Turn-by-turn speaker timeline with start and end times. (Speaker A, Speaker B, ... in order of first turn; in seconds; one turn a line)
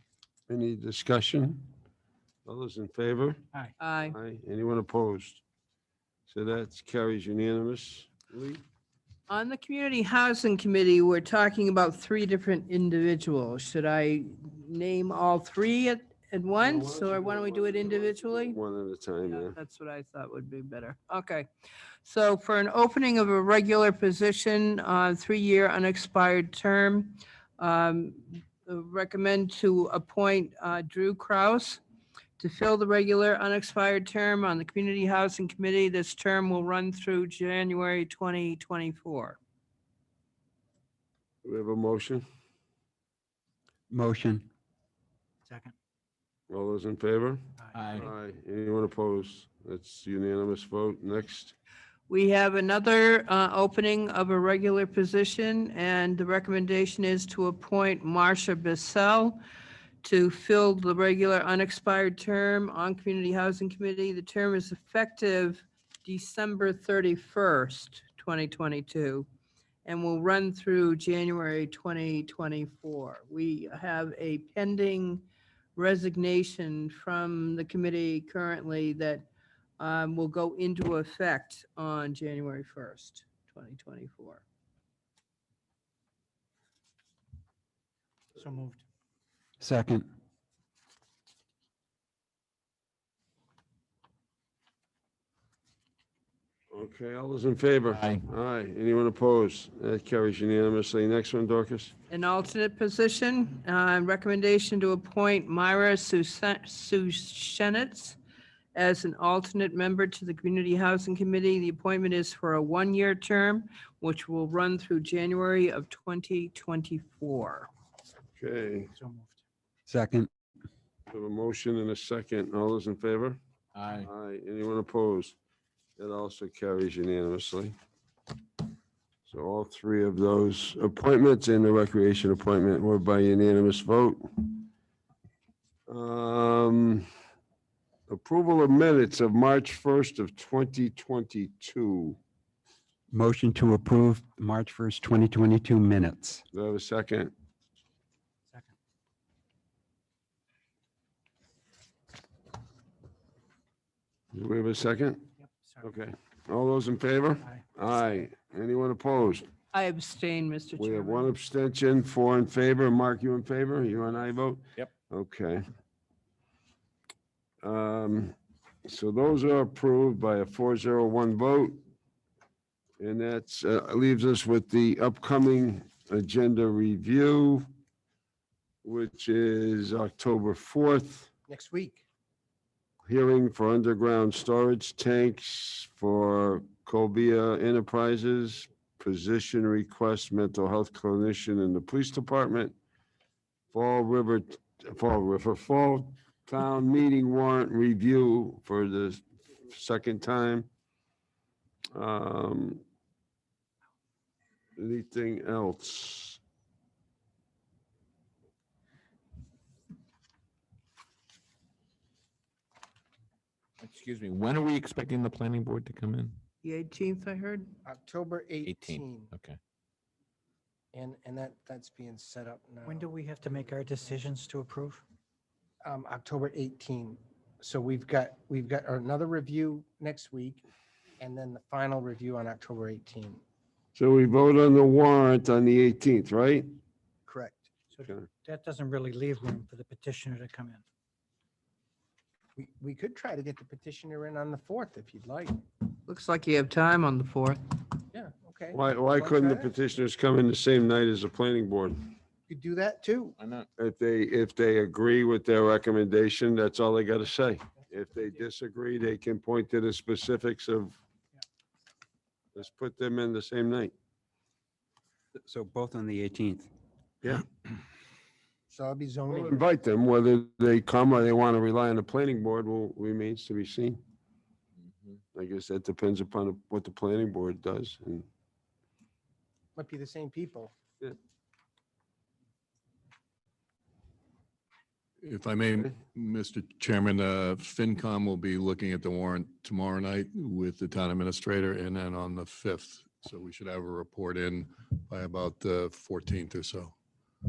Speaker A: 0.5-1.6
Speaker A: 2.5-3.4
Speaker B: 3.8-4.1
Speaker A: 4.1-5.4
Speaker A: 6.3-8.6
Speaker B: 9.3-18.6
Speaker A: 16.6-19.5
Speaker B: 19.3-21.4
Speaker B: 22.0-31.8
Speaker B: 32.4-39.4
Speaker A: 41.4-42.2
Speaker C: 43.9-44.5
Speaker D: 45.5-45.7
Speaker A: 46.5-51.5
Speaker D: 47.6-47.9
Speaker E: 47.8-48.0
Speaker B: 52.1-59.4
Speaker B: 60.0-69.3
Speaker B: 69.8-75.2
Speaker B: 75.8-79.3
Speaker B: 79.8-84.4
Speaker D: 88.3-88.8
Speaker C: 89.6-90.0
Speaker A: 96.7-101.9
Speaker B: 102.1-108.2
Speaker B: 108.7-117.7
Speaker A: 118.4-118.9
Speaker D: 118.9-119.4
Speaker C: 119.9-120.3
Speaker A: 121.1-123.4
Speaker E: 123.8-124.0
Speaker A: 123.9-125.3
Speaker A: 126.0-127.7
Speaker A: 129.2-134.6
Speaker A: 135.9-137.1
Speaker A: 138.1-142.2
Speaker C: 143.1-146.4
Speaker A: 146.5-147.3
Speaker A: 154.3-155.3
Speaker D: 155.5-155.8
Speaker A: 155.8-159.4
Speaker B: 159.7-161.3
Speaker A: 160.8-165.6
Speaker A: 167.6-171.8
Speaker A: 173.0-177.7
Speaker A: 178.8-181.3
Speaker F: 181.5-182.0
Speaker A: 183.0-192.8
Speaker A: 193.7-200.7
Speaker A: 201.9-202.8
Speaker A: 204.8-206.4
Speaker E: 213.8-216.4
Speaker B: 216.6-217.7
Speaker F: 217.8-219.3
Speaker E: 218.7-219.6
Speaker F: 220.9-223.7
Speaker D: 222.8-225.0
Speaker F: 225.8-230.6
Speaker F: 231.2-233.4
Speaker A: 233.9-236.7
Speaker F: 237.2-237.7
Speaker D: 237.9-240.8
Speaker A: 238.0-238.2
Speaker F: 242.6-245.6
Speaker B: 246.1-247.6
Speaker F: 248.1-249.7
Speaker A: 248.7-252.1
Speaker F: 252.5-253.3
Speaker E: 253.4-253.7
Speaker A: 253.8-261.0
Speaker A: 262.5-263.9
Speaker C: 265.4-266.7
Speaker F: 268.7-269.6
Speaker A: 269.3-274.0
Speaker A: 275.3-278.2
Speaker F: 279.8-280.7
Speaker G: 285.2-296.9